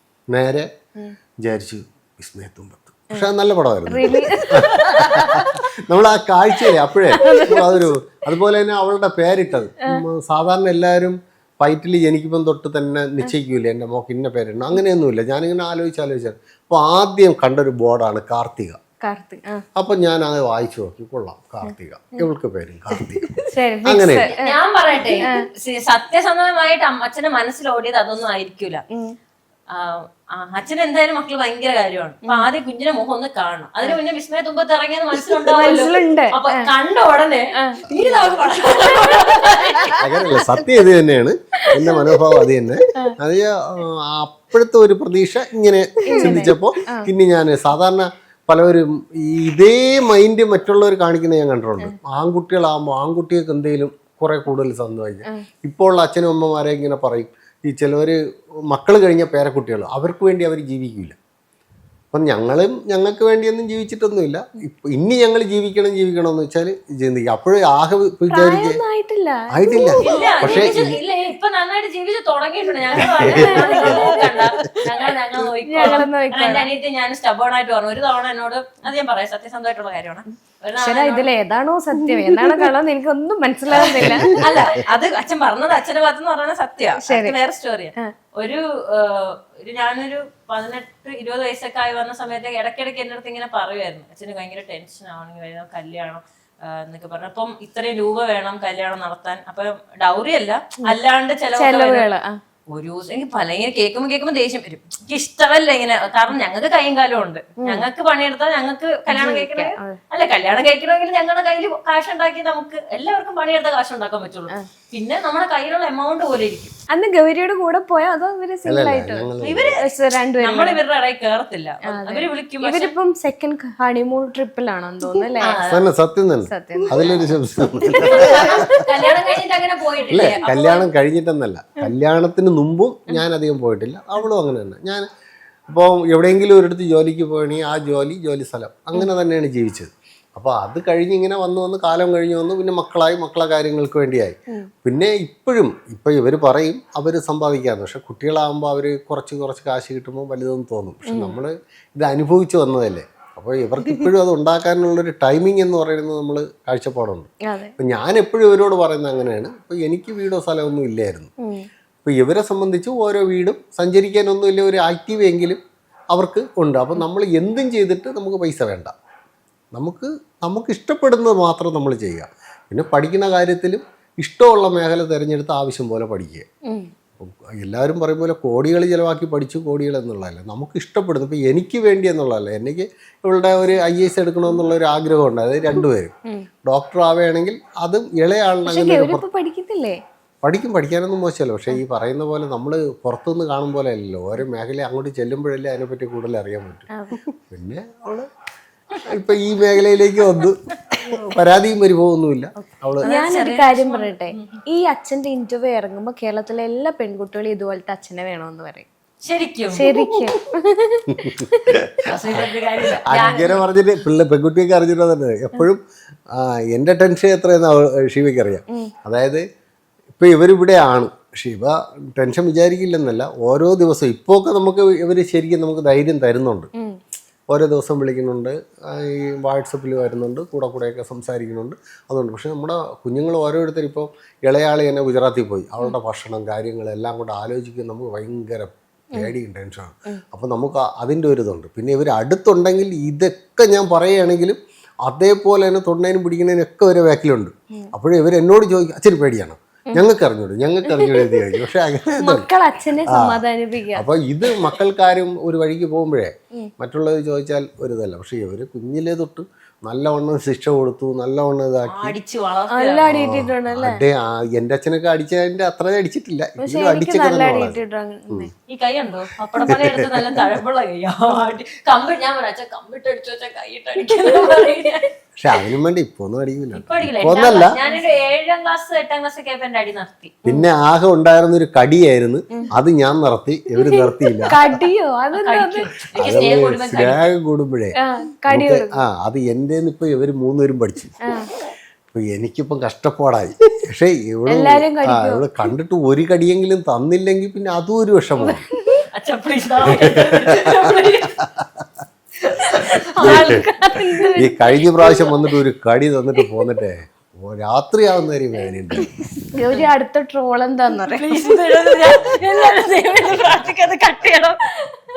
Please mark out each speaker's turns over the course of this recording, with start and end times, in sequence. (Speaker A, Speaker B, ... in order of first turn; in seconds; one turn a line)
Speaker A: 0.3-0.7
Speaker A: 1.4-18.8
Speaker B: 3.9-5.7
Speaker B: 6.7-7.9
Speaker B: 19.0-19.6
Speaker A: 19.8-24.3
Speaker B: 21.6-22.3
Speaker B: 23.5-24.6
Speaker C: 24.3-28.8
Speaker B: 25.2-25.5
Speaker C: 29.7-40.3
Speaker B: 35.5-36.7
Speaker B: 37.6-38.0
Speaker B: 39.8-40.5
Speaker A: 40.0-58.2
Speaker B: 41.8-42.3
Speaker B: 46.1-47.1
Speaker A: 58.7-61.2
Speaker A: 62.1-68.8
Speaker B: 68.3-70.0
Speaker A: 69.5-71.0
Speaker C: 70.0-81.3
Speaker A: 73.0-74.1
Speaker B: 73.2-74.5
Speaker B: 75.7-76.7
Speaker B: 80.8-84.5
Speaker C: 83.7-102.1
Speaker A: 83.9-84.6
Speaker B: 87.0-87.4
Speaker B: 101.5-102.3
Speaker C: 102.7-116.7
Speaker B: 109.1-110.0
Speaker B: 116.9-120.8
Speaker A: 118.7-119.8
Speaker C: 119.4-122.9
Speaker B: 121.9-125.6
Speaker C: 125.4-125.8
Speaker A: 125.6-128.6
Speaker B: 126.5-126.9
Speaker C: 126.9-127.3
Speaker C: 127.9-130.9
Speaker A: 130.1-135.1
Speaker A: 135.7-161.3
Speaker B: 151.1-151.4
Speaker B: 157.5-157.7
Speaker A: 162.1-165.6
Speaker A: 166.1-168.9
Speaker A: 169.8-176.4
Speaker B: 176.7-176.9
Speaker A: 177.2-186.2
Speaker A: 186.7-189.3
Speaker B: 188.7-190.0
Speaker A: 190.4-198.3
Speaker B: 196.9-197.2
Speaker C: 199.0-199.4
Speaker A: 199.1-203.1
Speaker B: 202.6-208.9
Speaker C: 203.0-204.6
Speaker C: 209.2-209.9
Speaker B: 209.7-211.8
Speaker A: 211.1-212.5
Speaker C: 212.0-213.6
Speaker A: 213.1-215.8
Speaker A: 216.3-219.4
Speaker A: 220.2-226.7
Speaker A: 227.5-252.5
Speaker B: 250.8-251.6
Speaker B: 252.2-254.1
Speaker A: 253.1-262.2
Speaker C: 261.9-263.1
Speaker B: 262.7-264.0
Speaker A: 263.1-268.5
Speaker B: 266.6-268.5
Speaker C: 268.7-275.1
Speaker A: 269.6-270.4
Speaker A: 275.4-277.7
Speaker C: 276.7-280.4
Speaker A: 280.4-284.7
Speaker B: 283.9-285.9
Speaker C: 285.3-287.3
Speaker A: 286.1-287.9
Speaker B: 288.0-289.0
Speaker A: 288.5-291.1
Speaker A: 292.1-298.6
Speaker B: 294.5-295.5
Speaker B: 298.4-299.0
Speaker C: 299.1-301.3
Speaker C: 302.4-305.2
Speaker A: 303.2-303.6
Speaker B: 303.2-305.3
Speaker A: 304.4-309.1
Speaker B: 309.5-311.5
Speaker C: 311.1-314.6